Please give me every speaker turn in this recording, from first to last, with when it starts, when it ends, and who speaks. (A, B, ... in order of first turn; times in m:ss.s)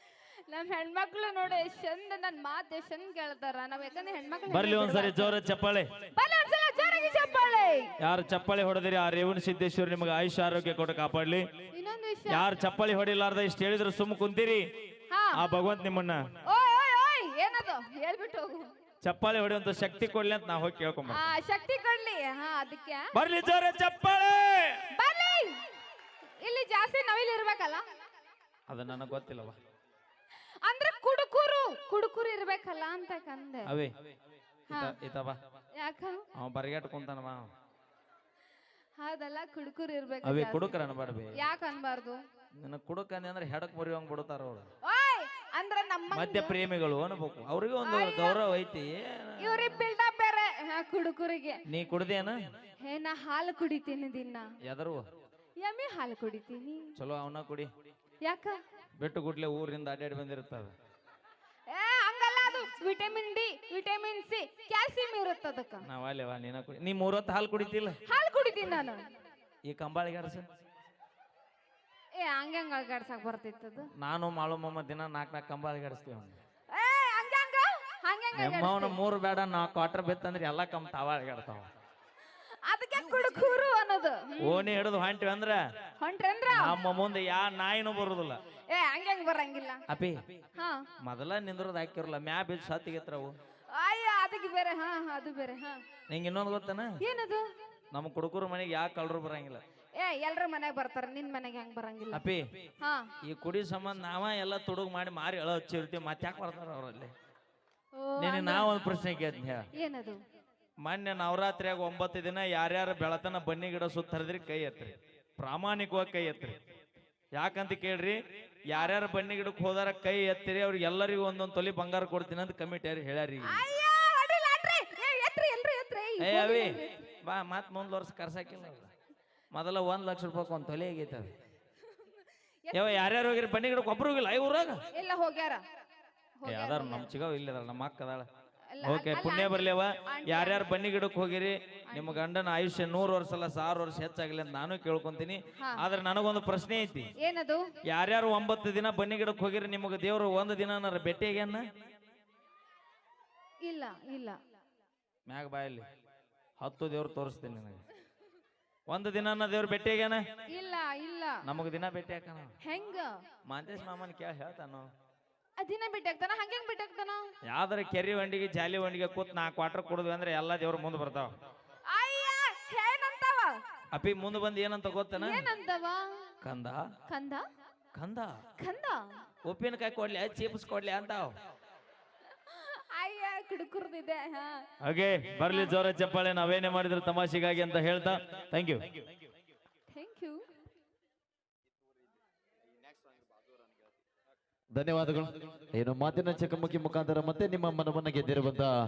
0:00.5-0:05.4 A
0:04.5-0:05.9 B
0:06.1-0:07.9 A
0:08.0-0:11.5 B
0:11.7-0:12.4 A
0:12.3-0:14.7 B
0:15.1-0:15.4 A
0:15.3-0:16.2 B
0:16.4-0:18.7 A
0:19.0-0:21.2 B
0:21.1-0:23.1 A
0:23.1-0:24.8 B
0:24.9-0:25.6 A
0:26.4-0:27.8 A
0:28.7-0:29.6 B
0:30.6-0:33.7 A
0:33.7-0:34.0 B
0:34.7-0:35.4 B
0:35.8-0:36.3 A
0:36.4-0:37.5 B
0:39.0-0:40.8 A
0:40.2-0:41.4 B
0:41.4-0:42.2 A
0:42.6-0:44.7 B
0:44.8-0:46.6 A
0:46.1-0:49.9 B
0:47.8-0:48.4 A
0:49.4-0:51.6 A
0:51.7-0:52.4 B
0:52.8-0:54.5 A
0:54.7-0:55.1 B
0:55.6-0:56.8 A
0:57.0-0:57.7 B
0:58.2-0:58.6 A
0:59.0-1:00.7 B
1:01.7-1:05.8 A
1:05.8-1:08.0 B
1:08.1-1:09.1 A
1:09.7-1:10.4 B
1:12.2-1:13.9 A
1:14.0-1:16.4 B
1:16.7-1:19.0 A
1:18.4-1:21.7 B
1:22.6-1:24.7 A
1:24.4-1:25.6 B
1:26.0-1:26.8 A
1:26.5-1:28.4 B
1:28.7-1:29.8 A
1:29.9-1:30.2 B
1:30.6-1:30.9 A
1:31.0-1:33.4 B
1:33.7-1:35.8 A
1:36.1-1:36.9 B
1:37.0-1:37.4 A
1:37.9-1:39.6 B
1:40.0-1:42.2 A
1:42.1-1:42.4 B
1:42.8-1:43.1 A
1:43.2-1:47.1 B
1:48.0-1:48.7 A
1:48.2-1:49.6 B
1:49.8-1:50.2 A
1:50.8-1:56.6 B
1:57.4-1:58.2 B
1:58.7-2:03.6 B
2:03.5-2:07.0 A
2:06.2-2:08.9 B
2:09.5-2:11.3 B
2:12.7-2:13.1 A
2:12.7-2:14.8 B
2:14.9-2:15.6 A
2:16.4-2:17.1 A
2:16.5-2:18.3 B
2:18.7-2:20.7 A
2:18.8-2:27.1 B
2:21.9-2:22.2 A
2:25.6-2:25.8 A
2:27.2-2:27.7 A
2:27.9-2:31.6 B
2:33.6-2:34.4 A
2:35.3-2:35.9 B
2:36.6-2:37.8 B
2:38.9-2:40.2 B
2:40.5-2:41.4 A
2:41.4-2:42.5 B
2:42.6-2:43.2 A
2:43.5-2:44.9 B
2:45.6-2:47.2 A
2:47.5-2:51.3 B
2:51.9-2:53.6 A
2:53.9-2:55.4 B
2:55.2-2:56.3 A
2:56.4-2:56.8 B
2:57.1-2:57.4 A
2:57.9-2:58.4 B
2:58.6-2:59.2 A
2:59.5-3:01.3 B
3:02.5-3:04.6 A
3:04.8-3:09.0 B
3:09.9-3:10.4 A
3:14.7-3:18.7 C